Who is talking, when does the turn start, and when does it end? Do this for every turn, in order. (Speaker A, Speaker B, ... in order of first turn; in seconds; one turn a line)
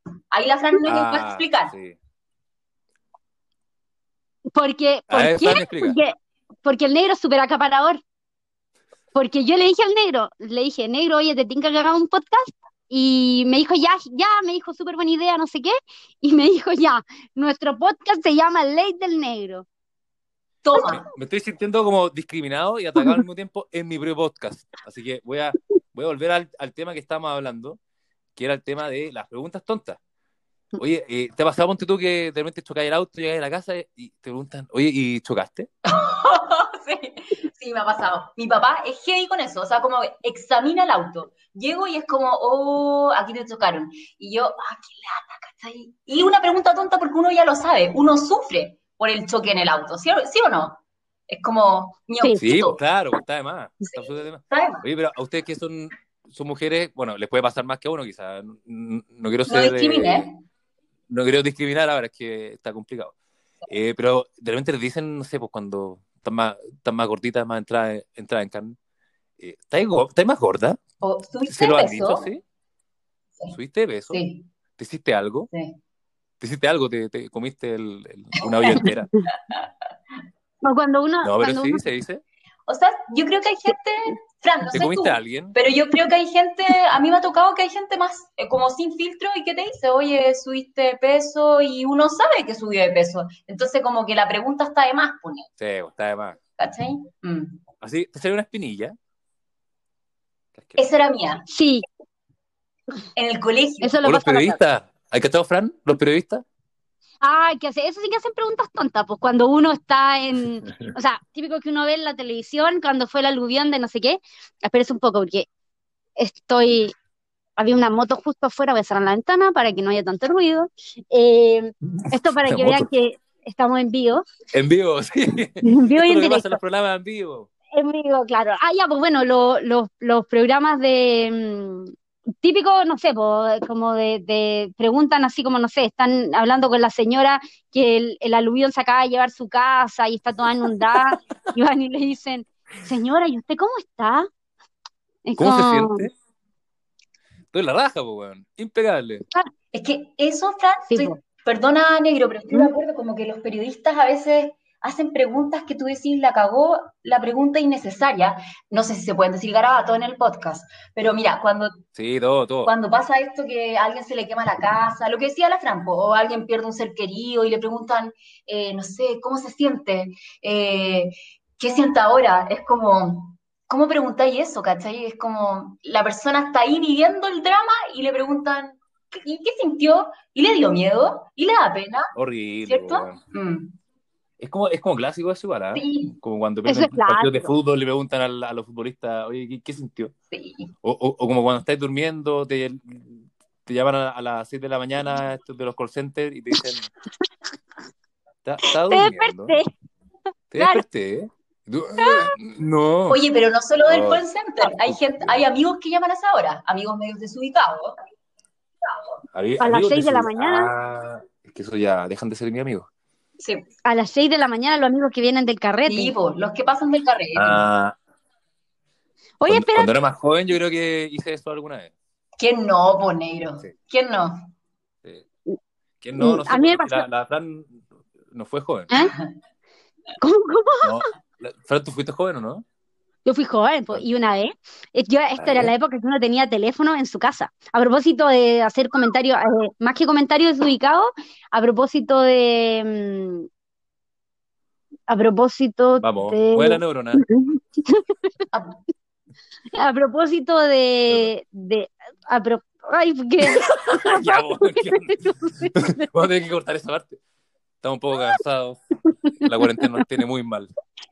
Speaker A: 0.3-1.7
Speaker B: 0.8-2.0
Speaker C: 4.5-8.0
Speaker B: 5.1-6.0
Speaker C: 9.1-19.7
Speaker A: 20.6-21.0
Speaker B: 20.8-27.8
Speaker B: 28.4-30.0
Speaker B: 30.8-35.7
Speaker A: 35.9-52.8
Speaker B: 52.4-60.3
Speaker A: 54.5-54.8
Speaker A: 59.5-60.4
Speaker B: 61.1-63.1
Speaker B: 63.7-68.8
Speaker B: 69.4-70.8
Speaker A: 71.0-72.3
Speaker B: 71.5-72.4
Speaker B: 73.5-74.2
Speaker A: 74.1-74.5
Speaker B: 74.8-75.5
Speaker A: 75.5-75.8
Speaker B: 76.4-79.1
Speaker C: 80.6-81.8
Speaker B: 81.2-82.2
Speaker A: 82.7-95.5
Speaker B: 84.7-85.6
Speaker B: 95.6-96.4
Speaker A: 96.6-97.6
Speaker B: 97.8-99.0
Speaker B: 100.5-100.9
Speaker A: 100.8-101.5
Speaker C: 101.5-101.8
Speaker A: 103.2-104.0
Speaker C: 103.8-104.6
Speaker B: 104.0-106.4
Speaker C: 107.2-115.5
Speaker C: 116.2-116.9
Speaker C: 117.6-124.2
Speaker B: 122.4-122.9
Speaker B: 124.5-127.5
Speaker C: 125.6-126.6
Speaker C: 127.8-144.3
Speaker C: 145.2-146.1
Speaker B: 145.4-146.1
Speaker B: 147.5-149.2
Speaker A: 149.7-161.7
Speaker C: 150.9-151.2
Speaker B: 161.9-162.7
Speaker A: 162.7-182.1
Speaker B: 182.2-183.2
Speaker A: 182.7-183.7
Speaker B: 184.4-190.1
Speaker A: 185.7-186.2
Speaker C: 186.7-187.5
Speaker A: 190.3-190.7
Speaker B: 190.8-196.9
Speaker B: 198.4-199.6
Speaker C: 198.7-199.7
Speaker B: 200.5-203.2
Speaker C: 200.6-200.8
Speaker C: 202.0-202.3
Speaker A: 203.1-208.0
Speaker B: 203.8-205.4
Speaker B: 209.3-212.9
Speaker C: 209.6-210.7
Speaker C: 213.8-216.1
Speaker A: 215.9-217.7
Speaker B: 217.4-218.0
Speaker C: 219.4-219.9
Speaker B: 219.5-221.9
Speaker A: 222.4-224.5
Speaker B: 226.0-228.9
Speaker C: 226.2-227.1
Speaker A: 229.0-229.3
Speaker C: 230.2-231.0
Speaker B: 230.8-232.7
Speaker C: 233.3-243.5
Speaker B: 235.4-235.7
Speaker C: 245.1-248.1
Speaker B: 246.0-247.3
Speaker A: 248.5-248.8
Speaker C: 249.8-256.1
Speaker B: 253.4-255.2
Speaker B: 255.7-257.2
Speaker B: 257.8-258.8
Speaker B: 259.4-260.7